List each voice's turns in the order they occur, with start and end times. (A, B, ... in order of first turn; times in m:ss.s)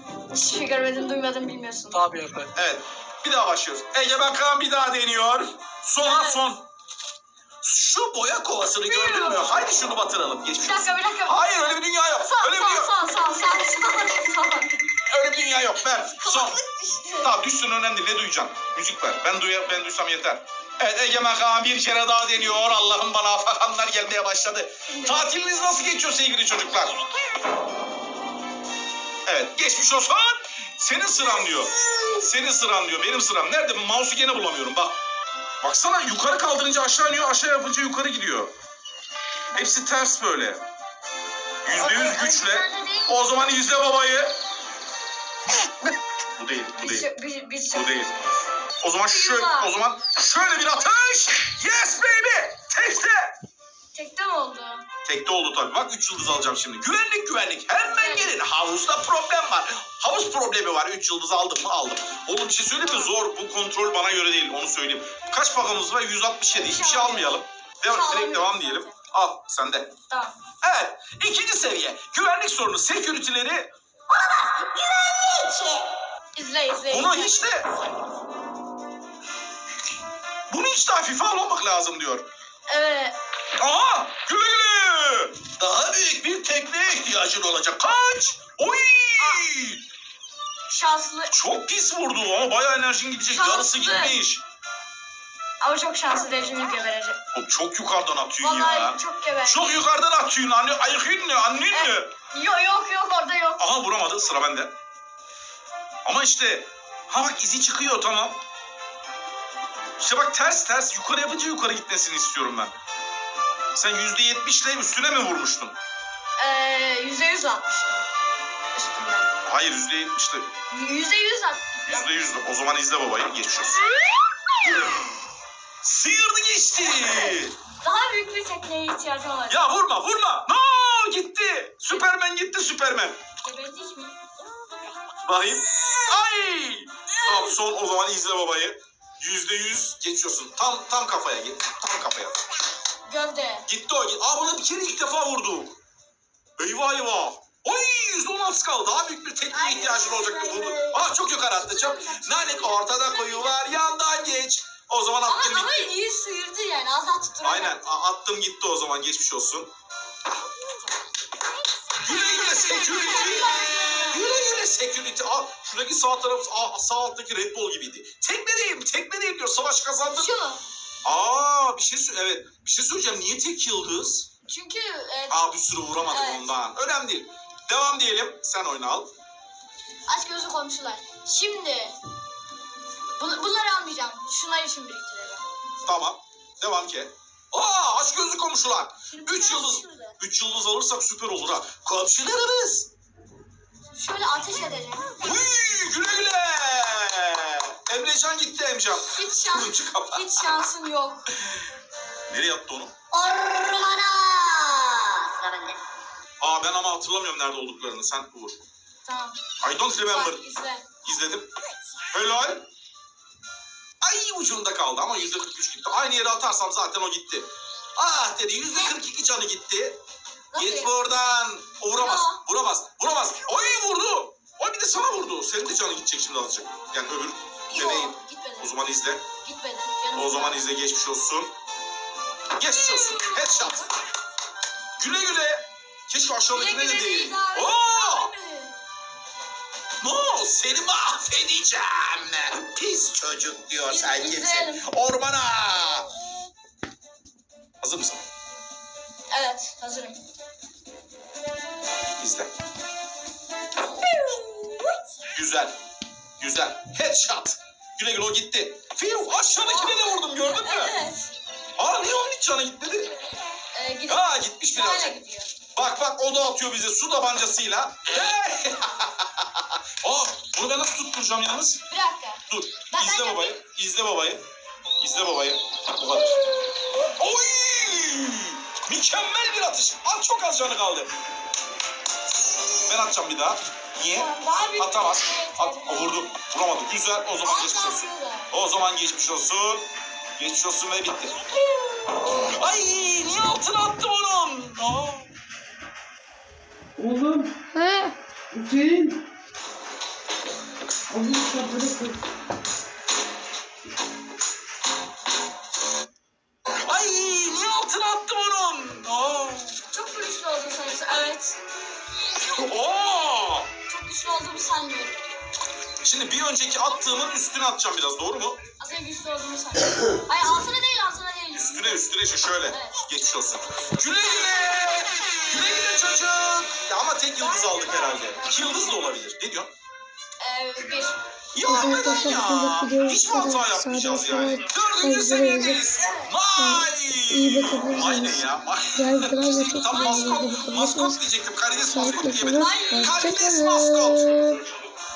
0:00.3-0:02.2 A
0:02.1-0:02.5 B
0:02.5-0:06.6 C
0:06.0-0:06.5 A
0:07.6-0:12.9 C
0:08.8-0:09.6 A
0:10.6-0:11.5 A
0:12.1-0:14.9 A
0:15.0-0:16.6 C
0:15.8-0:17.3 A
0:17.2-0:26.9 C
0:24.9-0:25.3 A
0:29.2-0:34.9 C
0:31.4-0:32.2 A
0:35.6-0:38.5 C
0:39.5-0:40.6 C
0:41.6-0:44.3 C
0:41.7-0:43.1 A
0:46.3-0:47.1 C
0:46.8-0:48.2 A
0:47.7-0:48.1 C
0:48.8-0:53.3 C
0:49.1-0:49.7 A
0:53.9-0:54.8 A
0:55.0-1:09.9 C
0:57.9-0:58.3 A
1:06.5-1:08.9 A
1:10.1-1:10.4 A
1:10.6-1:13.7 C
1:14.2-1:17.4 A
1:16.9-1:17.7 C
1:20.5-1:22.2 C
1:22.7-1:23.2 A
1:23.6-1:29.8 C
1:30.7-1:31.3 A
1:31.3-1:34.4 C
1:33.3-1:34.2 A
1:35.6-1:37.2 A
1:37.3-1:42.1 C
1:38.4-1:39.8 A
1:41.7-1:43.6 A
1:43.6-1:44.7 C
1:46.0-1:48.4 C
1:50.0-1:52.7 C
1:53.7-1:55.7 C
1:56.4-1:58.0 A
1:58.7-1:59.3 A
1:59.4-2:00.5 C
2:00.7-2:02.0 A
2:01.9-2:03.8 C
2:04.7-2:05.0 C
2:05.8-2:07.5 C
2:06.9-2:09.6 A
2:09.5-2:13.2 C
2:13.4-2:14.2 A
2:15.2-2:22.3 C
2:17.2-2:17.6 A
2:23.1-2:23.6 A
2:23.7-2:25.7 C
2:26.6-2:35.9 C
2:29.5-2:33.7 A
2:35.2-2:37.9 A
2:37.4-2:39.7 C
2:41.9-2:44.4 A
2:42.0-2:50.3 C
2:50.1-2:50.6 A
2:51.0-2:54.3 C
2:54.4-2:55.5 A
2:55.3-2:59.1 C
2:56.0-2:56.6 A
3:00.1-3:02.0 A
3:03.2-3:05.4 A
3:05.8-3:12.9 C
3:09.1-3:10.2 A
3:13.9-3:15.4 A
3:15.2-3:20.4 C
3:19.0-3:21.2 A
3:22.3-3:22.9 C
3:23.1-3:25.8 A
3:26.4-3:28.6 C
3:29.0-3:29.4 A
3:29.6-3:30.4 C
3:30.0-3:30.9 A
3:31.0-3:31.5 C
3:32.1-3:32.6 C
3:34.0-3:40.0 C
3:40.5-3:40.9 A
3:40.5-3:49.2 C
3:42.0-3:42.4 A
3:47.7-3:48.8 A
3:49.3-3:50.7 A
3:50.1-3:51.5 C
3:52.6-3:53.9 C
3:52.6-3:53.9 A
3:55.0-3:58.3 C
3:56.5-3:58.8 A
4:00.0-4:06.1 C
4:03.9-4:04.9 A
4:07.8-4:08.2 C
4:09.3-4:10.2 A
4:12.2-4:12.5 C
4:13.8-4:15.0 A
4:15.3-4:15.7 C
4:16.4-4:21.0 C
4:19.4-4:21.3 A
4:21.8-4:23.1 C
4:23.7-4:25.5 A
4:24.1-4:25.2 C
4:25.7-4:31.8 C
4:31.9-4:33.6 A
4:32.5-4:34.4 C
4:35.0-4:36.4 C
4:36.4-4:37.1 A
4:37.0-4:41.1 C
4:42.7-4:49.8 C
4:44.1-4:46.4 A
4:47.4-4:48.5 A
4:50.4-4:51.4 C
4:51.4-4:52.5 A
4:52.4-4:55.3 C
4:57.0-4:57.6 B
4:57.7-4:58.1 D
4:58.5-4:59.2 B
5:01.1-5:02.2 B
5:06.8-5:09.8 C
5:09.9-5:11.6 A
5:12.5-5:13.7 C
5:13.9-5:15.2 A
5:16.0-5:18.6 C
5:18.8-5:22.0 A
5:21.5-5:29.7 C
5:22.7-5:23.0 A
5:27.4-5:29.0 A
5:30.4-5:31.2 A
5:31.5-5:44.6 C
5:31.6-5:35.8 D
5:31.7-5:32.6 A
5:36.0-5:36.3 A
5:36.5-5:41.2 D
5:39.7-5:40.4 A
5:41.9-5:44.6 D
5:42.5-5:43.2 A